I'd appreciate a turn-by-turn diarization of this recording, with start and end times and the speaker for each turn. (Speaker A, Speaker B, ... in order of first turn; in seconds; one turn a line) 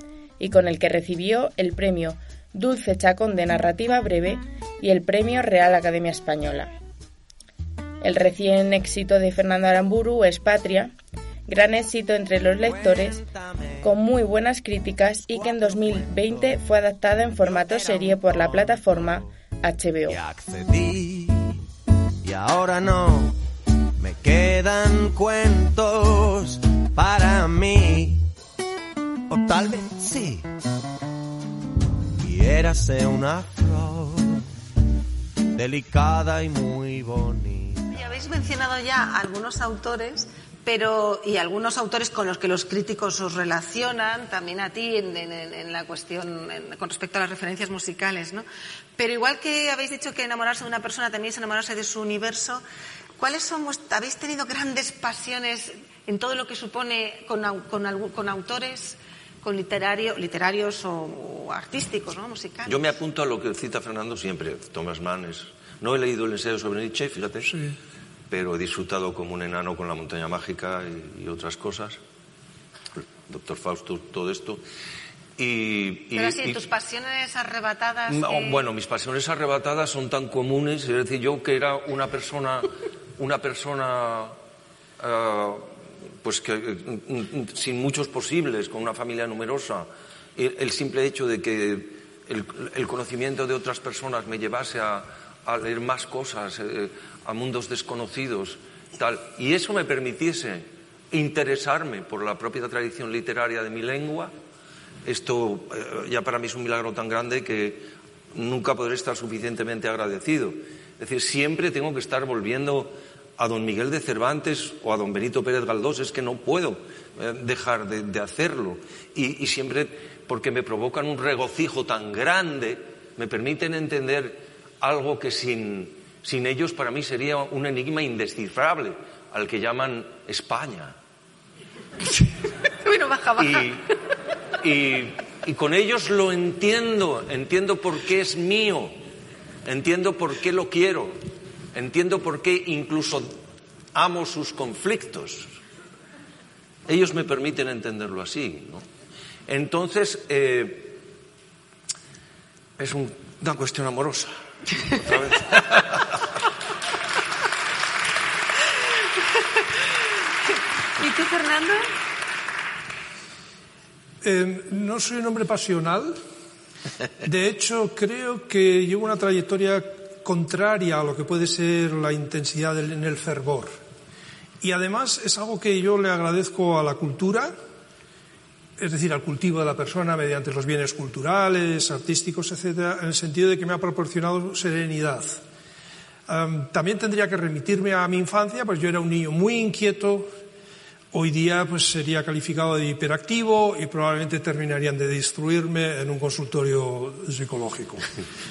Speaker A: 0.4-6.7
Speaker A: 8.0-10.9
Speaker A: 11.5-13.2
Speaker B: 12.7-13.5
Speaker A: 13.8-20.2
Speaker B: 15.3-16.6
Speaker B: 17.5-18.7
Speaker B: 20.1-21.6
Speaker B: 22.2-23.4
Speaker B: 24.0-28.3
Speaker B: 29.3-30.5
Speaker B: 32.2-34.5
Speaker B: 35.5-37.9
Speaker C: 37.9-48.4
Speaker C: 49.0-52.6
Speaker C: 53.2-62.9
Speaker D: 62.7-67.7
Speaker D: 68.3-72.0
Speaker D: 72.9-74.6
Speaker D: 75.4-76.6
Speaker C: 76.1-78.6
Speaker D: 78.1-84.3
Speaker D: 85.0-85.7
Speaker D: 86.2-104.3
Speaker D: 105.0-130.9
Speaker C: 132.8-133.7
Speaker D: 133.4-133.9
Speaker D: 134.6-138.9
Speaker D: 139.6-141.2
Speaker D: 141.7-143.3
Speaker D: 143.9-145.5
Speaker D: 146.8-148.8
Speaker D: 149.5-151.0
Speaker D: 152.8-156.2
Speaker C: 161.0-161.9
Speaker E: 164.2-166.2
Speaker E: 167.2-173.8
Speaker E: 174.6-177.5
Speaker E: 178.8-185.4
Speaker E: 186.3-190.3
Speaker E: 191.1-198.1